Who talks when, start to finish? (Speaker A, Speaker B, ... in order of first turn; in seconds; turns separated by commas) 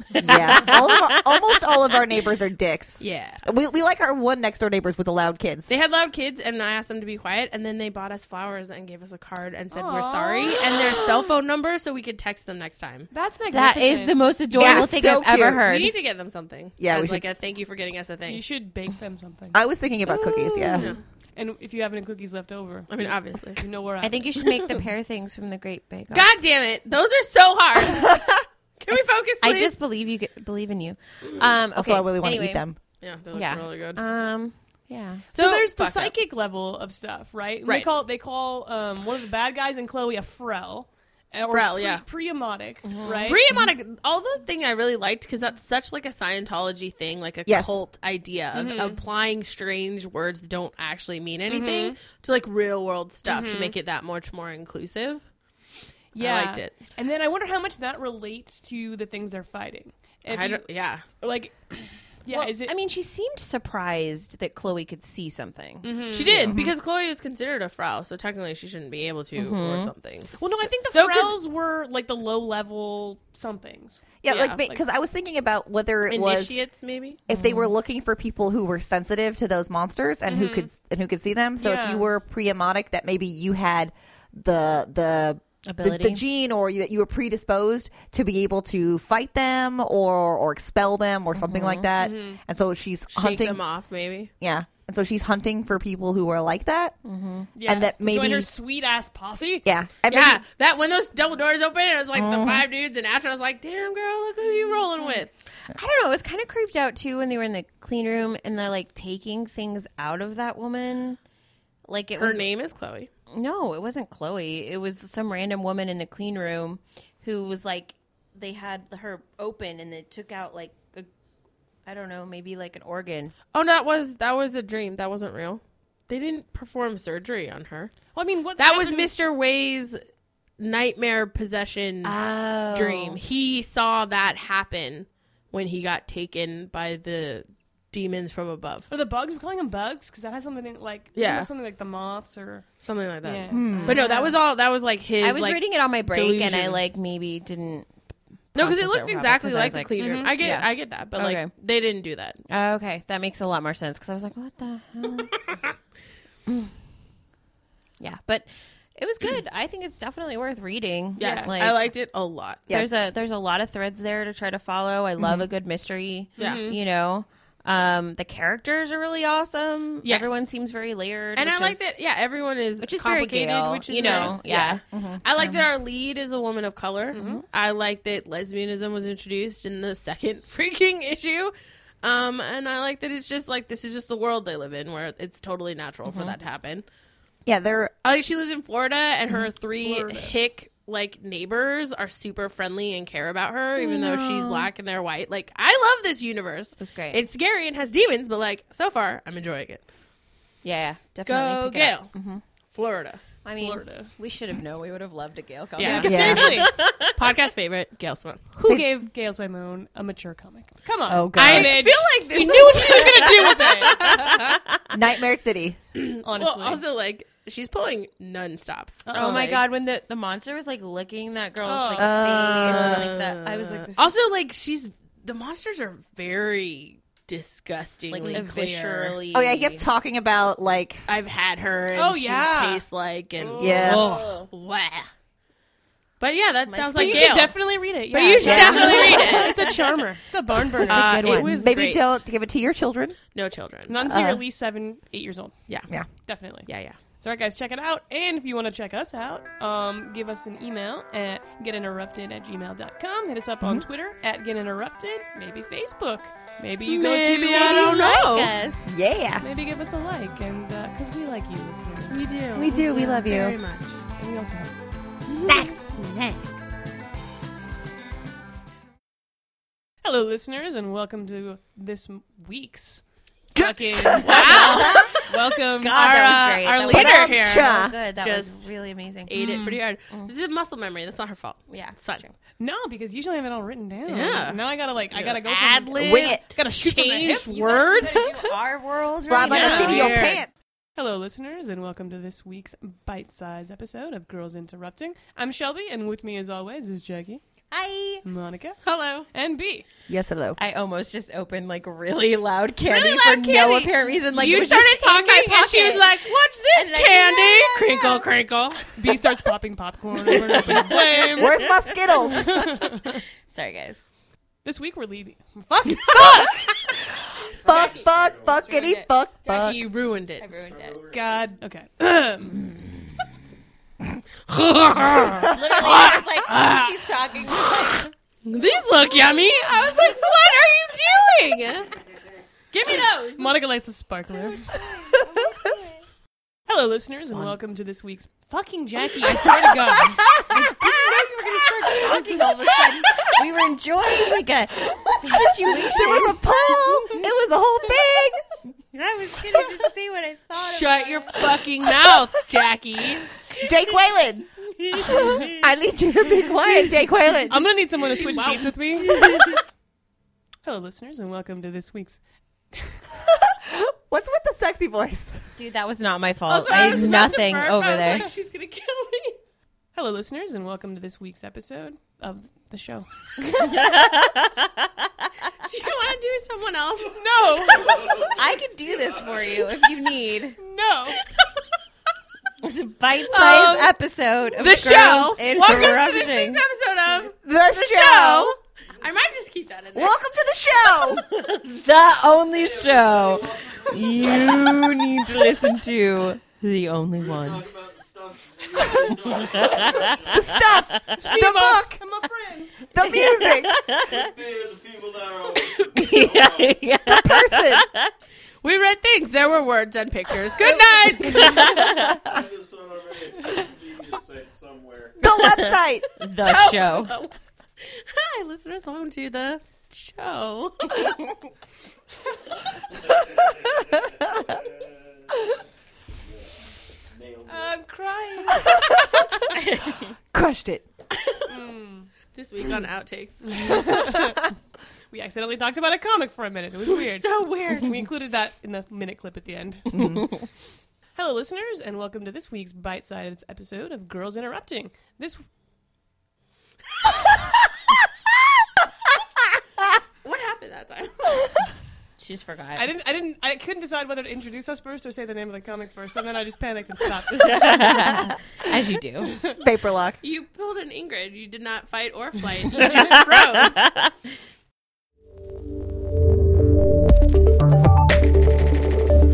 Speaker A: 0.2-5.7, Speaker B: 0.2-1.7, Speaker C: 3.0-3.4, Speaker C: 5.7-13.1, Speaker D: 9.7-10.5, Speaker B: 10.7-11.2, Speaker D: 13.1-14.2, Speaker B: 13.5-15.9, Speaker A: 14.5-15.6, Speaker C: 14.6-18.4, Speaker A: 16.8-17.2, Speaker D: 18.2-19.6, Speaker A: 19.5-20.9, Speaker B: 20.1-20.8, Speaker D: 20.7-24.3, Speaker C: 22.9-23.6, Speaker B: 24.0-26.3, Speaker C: 24.4-24.9, Speaker C: 26.1-28.2, Speaker A: 27.9-28.3, Speaker C: 28.8-29.8, Speaker B: 29.4-32.6, Speaker A: 31.7-32.8, Speaker C: 33.0-34.0, Speaker B: 33.3-35.3, Speaker C: 35.3-36.1, Speaker D: 35.3-43.5, Speaker C: 37.6-37.9, Speaker C: 41.5-42.0, Speaker B: 42.8-43.3, Speaker C: 43.2-55.2, Speaker A: 47.5-47.8, Speaker D: 48.5-49.0, Speaker D: 51.5-52.0, Speaker D: 53.2-53.7, Speaker D: 56.1-62.7, Speaker C: 56.1-56.8, Speaker C: 60.3-61.0, Speaker B: 62.3-66.0, Speaker D: 65.8-66.5, Speaker C: 66.0-71.4, Speaker A: 66.4-66.7, Speaker B: 69.3-69.9, Speaker D: 70.4-74.0, Speaker A: 74.2-76.6, Speaker C: 74.2-74.7, Speaker C: 76.1-77.2, Speaker A: 77.3-93.6, Speaker B: 77.3-77.7, Speaker D: 80.3-80.7, Speaker D: 81.6-82.1, Speaker B: 85.7-86.2, Speaker B: 91.3-91.9, Speaker D: 92.0-92.4, Speaker C: 93.1-94.3, Speaker A: 94.4-96.9, Speaker B: 97.0-97.5, Speaker D: 97.5-99.6, Speaker A: 97.7-98.5, Speaker A: 99.6-100.4, Speaker C: 100.1-105.3, Speaker A: 102.1-102.6, Speaker B: 105.7-111.2, Speaker B: 111.9-112.5, Speaker C: 112.2-113.1, Speaker B: 113.3-121.1, Speaker B: 121.8-123.3, Speaker C: 123.5-128.0, Speaker D: 128.1-129.3, Speaker C: 128.6-130.0, Speaker C: 130.6-132.2, Speaker B: 132.0-133.2, Speaker C: 132.7-138.9, Speaker D: 138.9-142.7, Speaker C: 141.1-141.5, Speaker C: 142.8-146.8, Speaker D: 143.2-144.4, Speaker A: 143.5-144.0, Speaker B: 145.2-147.9, Speaker B: 148.5-151.5, Speaker C: 148.6-152.4, Speaker D: 149.9-150.4, Speaker B: 152.5-155.5, Speaker B: 158.0-162.0, Speaker C: 161.2-162.7, Speaker D: 161.2-161.5, Speaker A: 162.7-163.1, Speaker B: 162.7-171.9, Speaker D: 166.4-166.8, Speaker C: 166.4-166.6, Speaker C: 170.0-170.5, Speaker C: 171.3-186.8, Speaker B: 172.8-174.8, Speaker D: 174.0-174.4, Speaker A: 174.9-175.2, Speaker B: 175.4-175.6, Speaker D: 177.1-177.4, Speaker B: 177.1-177.4, Speaker B: 186.1-186.3, Speaker A: 187.4-187.9, Speaker C: 188.0-199.8, Speaker D: 189.8-190.3, Speaker B: 193.8-194.7, Speaker B: 196.8-197.2, Speaker B: 200.6-202.4, Speaker C: 201.2-202.1, Speaker C: 202.7-203.3, Speaker B: 203.4-207.1, Speaker D: 203.6-204.1, Speaker C: 205.8-206.3, Speaker D: 205.8-206.7, Speaker A: 206.0-206.6, Speaker C: 207.1-208.4, Speaker D: 208.5-214.2, Speaker A: 208.6-208.9, Speaker A: 211.1-211.8, Speaker C: 211.3-214.6, Speaker B: 214.2-214.9, Speaker A: 214.9-215.8, Speaker C: 215.9-219.6, Speaker D: 216.2-216.8, Speaker D: 219.1-219.5, Speaker B: 219.1-224.2, Speaker D: 221.6-222.2, Speaker A: 222.0-223.1, Speaker C: 222.6-229.2, Speaker B: 228.1-229.8, Speaker A: 229.3-231.0, Speaker C: 231.1-235.1, Speaker D: 231.9-232.8, Speaker B: 233.5-234.4, Speaker A: 233.6-234.0, Speaker C: 236.2-239.6, Speaker B: 236.7-237.4, Speaker D: 236.9-241.4, Speaker A: 238.4-239.3, Speaker B: 238.6-239.5, Speaker C: 240.8-242.2, Speaker B: 240.8-241.7, Speaker A: 241.3-243.2, Speaker C: 243.3-244.1, Speaker D: 243.9-245.5, Speaker A: 244.0-244.4, Speaker D: 246.2-246.7, Speaker C: 246.6-247.0, Speaker D: 247.2-258.0, Speaker C: 256.8-258.5, Speaker B: 257.7-258.8, Speaker A: 258.9-259.4, Speaker D: 259.4-263.4, Speaker C: 262.1-264.0, Speaker B: 262.6-263.5, Speaker D: 264.1-265.3, Speaker C: 265.3-265.7, Speaker A: 265.4-265.9, Speaker D: 270.0-276.1, Speaker A: 273.5-274.3, Speaker B: 274.1-279.3, Speaker C: 274.2-275.2, Speaker C: 275.8-278.7, Speaker A: 276.9-277.9, Speaker C: 279.3-282.2, Speaker D: 279.3-279.8, Speaker B: 281.7-282.3, Speaker D: 282.6-288.1, Speaker C: 284.1-288.2, Speaker A: 286.0-286.4, Speaker B: 287.7-290.4, Speaker A: 289.3-290.5, Speaker D: 289.4-290.1, Speaker C: 289.5-290.4, Speaker D: 290.9-297.4, Speaker B: 297.7-298.2, Speaker D: 298.2-298.8, Speaker C: 298.8-299.3, Speaker D: 299.3-299.8, Speaker A: 300.1-300.6, Speaker B: 300.6-306.1, Speaker C: 302.8-308.8, Speaker B: 306.7-308.2, Speaker D: 308.9-311.6, Speaker A: 311.3-312.5, Speaker D: 312.1-313.2, Speaker B: 313.5-314.1, Speaker D: 314.6-316.4, Speaker A: 316.1-316.5, Speaker A: 317.6-319.9, Speaker B: 317.6-319.1, Speaker E: 317.7-318.7, Speaker C: 319.4-320.5, Speaker B: 320.4-321.0, Speaker E: 320.5-321.4, Speaker D: 321.1-322.7, Speaker C: 324.5-327.0, Speaker B: 325.4-328.1, Speaker C: 328.4-332.0, Speaker C: 332.7-333.6, Speaker D: 333.4-334.8, Speaker B: 334.9-335.8, Speaker D: 336.6-340.3, Speaker A: 340.2-341.0, Speaker B: 340.5-347.3, Speaker C: 341.7-342.4, Speaker A: 345.6-348.4, Speaker B: 347.9-348.2, Speaker B: 348.9-352.1, Speaker C: 350.6-353.3, Speaker A: 353.6-354.5, Speaker B: 353.8-355.7, Speaker A: 355.0-357.7, Speaker B: 356.3-356.9, Speaker D: 357.5-359.3, Speaker C: 358.0-359.6, Speaker A: 359.1-359.5, Speaker D: 360.6-362.2, Speaker A: 363.4-365.4, Speaker B: 365.6-368.3, Speaker C: 366.5-369.4, Speaker D: 369.9-373.1, Speaker B: 373.4-375.3, Speaker C: 375.6-378.0, Speaker D: 377.1-378.2, Speaker B: 378.3-380.6, Speaker D: 380.6-381.2, Speaker B: 382.6-386.6, Speaker C: 383.3-383.9, Speaker C: 384.5-390.2, Speaker A: 387.4-388.6, Speaker A: 389.9-391.2, Speaker B: 390.8-397.6, Speaker E: 392.5-394.9, Speaker E: 397.2-400.4, Speaker B: 398.8-400.2, Speaker A: 400.3-402.0, Speaker B: 400.8-401.3, Speaker D: 401.2-402.8, Speaker A: 402.9-403.7, Speaker B: 403.1-404.3, Speaker E: 404.1-406.8, Speaker B: 405.9-408.1, Speaker A: 407.1-407.8, Speaker C: 408.6-411.8, Speaker B: 410.7-412.3, Speaker E: 411.6-415.2, Speaker A: 415.2-416.1, Speaker B: 415.2-417.1, Speaker C: 416.4-421.1, Speaker E: 423.5-424.8, Speaker E: 427.2-427.7, Speaker D: 427.5-428.8, Speaker B: 429.5-430.1, Speaker A: 430.3-430.8, Speaker C: 431.2-431.4, Speaker D: 431.5-432.1, Speaker C: 432.3-433.9, Speaker D: 433.6-434.5, Speaker D: 435.1-440.2, Speaker C: 436.9-437.9, Speaker D: 441.1-445.5, Speaker C: 450.2-451.3, Speaker B: 452.2-452.9, Speaker D: 452.7-458.3, Speaker B: 457.5-459.4, Speaker A: 459.6-460.2, Speaker C: 460.2-463.8, Speaker B: 462.8-463.1, Speaker B: 463.7-464.1